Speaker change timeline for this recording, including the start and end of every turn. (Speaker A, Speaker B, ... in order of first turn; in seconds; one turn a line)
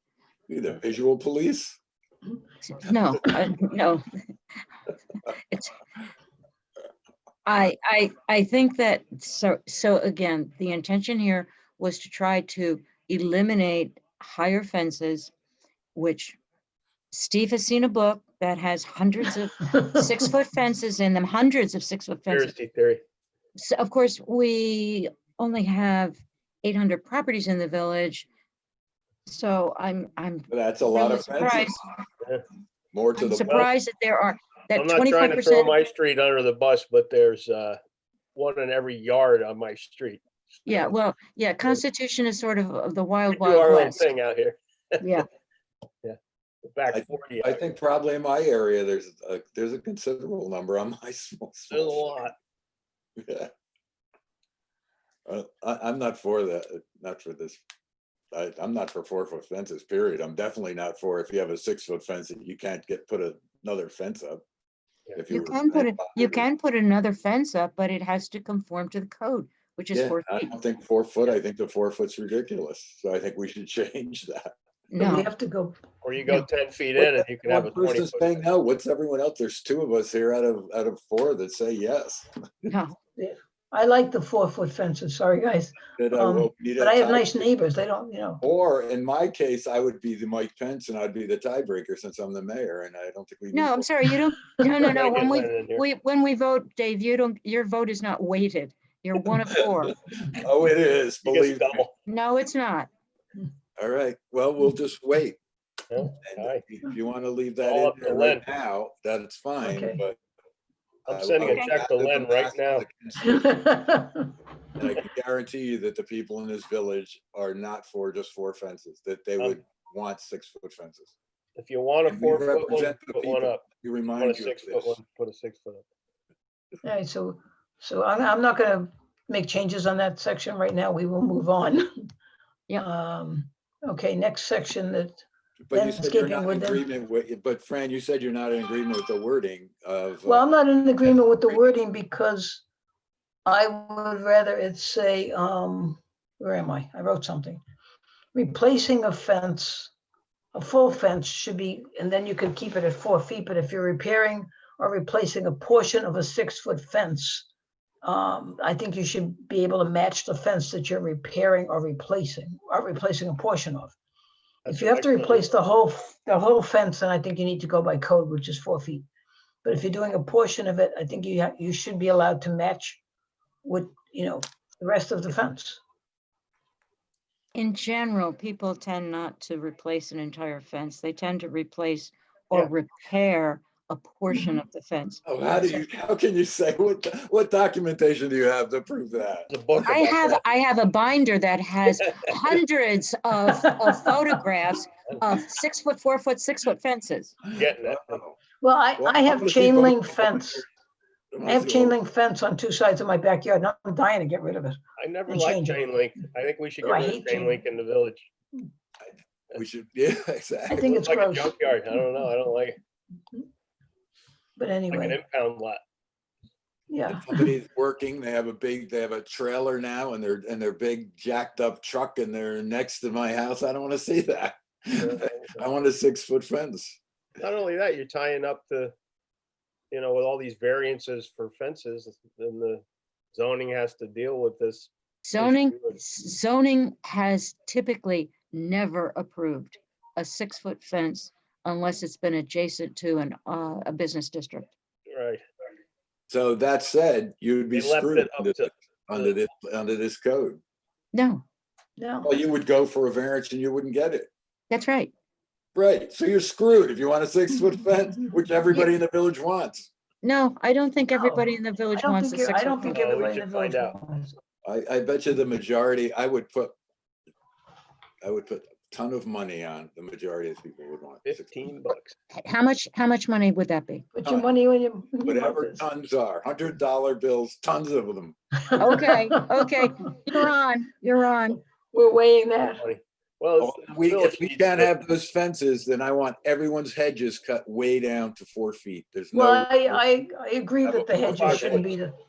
Speaker A: 0.5-1.8
Speaker B: 2.6-4.0
Speaker B: 5.3-5.7
Speaker B: 7.5-15.3
Speaker B: 16.0-16.4
Speaker B: 17.1-22.5
Speaker C: 22.3-23.0
Speaker B: 23.6-28.3
Speaker B: 29.3-31.8
Speaker A: 30.5-31.8
Speaker A: 32.9-33.7
Speaker B: 33.2-35.8
Speaker C: 34.7-37.8
Speaker C: 38.3-40.2
Speaker B: 40.7-44.1
Speaker C: 43.3-45.0
Speaker B: 45.0-45.3
Speaker C: 46.0-47.8
Speaker A: 46.9-52.1
Speaker C: 51.7-52.3
Speaker A: 53.2-53.5
Speaker A: 55.3-57.6
Speaker A: 58.3-64.4
Speaker A: 65.1-66.5
Speaker B: 65.3-70.6
Speaker A: 69.9-74.5
Speaker B: 74.9-75.3
Speaker D: 75.0-75.8
Speaker C: 76.0-78.4
Speaker A: 77.0-82.2
Speaker B: 82.7-83.0
Speaker D: 83.2-88.4
Speaker A: 86.0-87.5
Speaker A: 88.4-93.9
Speaker B: 93.5-99.9
Speaker C: 94.8-95.8
Speaker A: 100.2-101.8
Speaker C: 101.2-101.9
Speaker B: 102.1-102.9
Speaker A: 103.8-105.4
Speaker C: 105.9-106.6
Speaker A: 106.2-110.2
Speaker C: 107.6-108.4
Speaker D: 109.6-110.0
Speaker C: 111.0-112.8
Speaker A: 111.1-113.8
Speaker B: 111.4-111.7
Speaker D: 113.2-114.3
Speaker A: 114.7-121.1
Speaker C: 121.5-125.8
Speaker A: 122.1-125.0
Speaker D: 126.8-131.9
Speaker D: 132.8-136.8
Speaker A: 135.7-140.4
Speaker D: 140.2-142.6
Speaker D: 143.4-147.6
Speaker D: 148.3-149.9
Speaker D: 150.5-157.5
Speaker D: 158.0-163.9
Speaker C: 164.6-165.5
Speaker D: 164.7-169.1
Speaker D: 169.6-173.0
Speaker D: 173.6-175.8
Speaker B: 177.5-185.2
Speaker A: 185.2-189.5
Speaker C: 189.5-190.4
Speaker B: 189.8-197.3
Speaker D: 193.8-194.3
Speaker A: 197.4-198.4
Speaker C: 197.5-198.2
Speaker D: 198.6-200.6
Speaker A: 199.0-200.6
Speaker A: 201.3-201.9
Speaker D: 201.4-205.8
Speaker C: 205.0-208.3
Speaker D: 206.8-207.6
Speaker A: 209.5-210.9
Speaker D: 210.7-211.6
Speaker C: 210.8-212.8
Speaker D: 214.6-215.2
Speaker C: 214.9-215.8
Speaker D: 216.9-217.5
Speaker A: 217.1-227.0
Speaker C: 224.9-225.7
Speaker C: 227.4-228.9
Speaker C: 229.9-236.0
Speaker B: 235.2-244.7
Speaker C: 245.1-245.4
Speaker A: 246.3-250.6
Speaker C: 247.7-249.3
Speaker B: 251.1-251.4
Speaker D: 252.0-252.3
Speaker A: 252.2-254.3
Speaker B: 254.7-255.1
Speaker A: 255.7-259.9
Speaker B: 260.2-263.0
Speaker D: 261.1-264.4
Speaker C: 262.9-263.9
Speaker A: 264.6-266.8
Speaker A: 268.2-271.6
Speaker C: 271.2-272.1
Speaker B: 272.3-274.1
Speaker D: 274.1-275.9
Speaker A: 275.2-278.4
Speaker D: 278.7-279.4
Speaker B: 278.8-281.6
Speaker D: 281.9-282.9
Speaker C: 282.7-285.0
Speaker A: 283.6-290.0
Speaker D: 289.3-292.2
Speaker A: 290.9-291.8
Speaker C: 291.2-291.9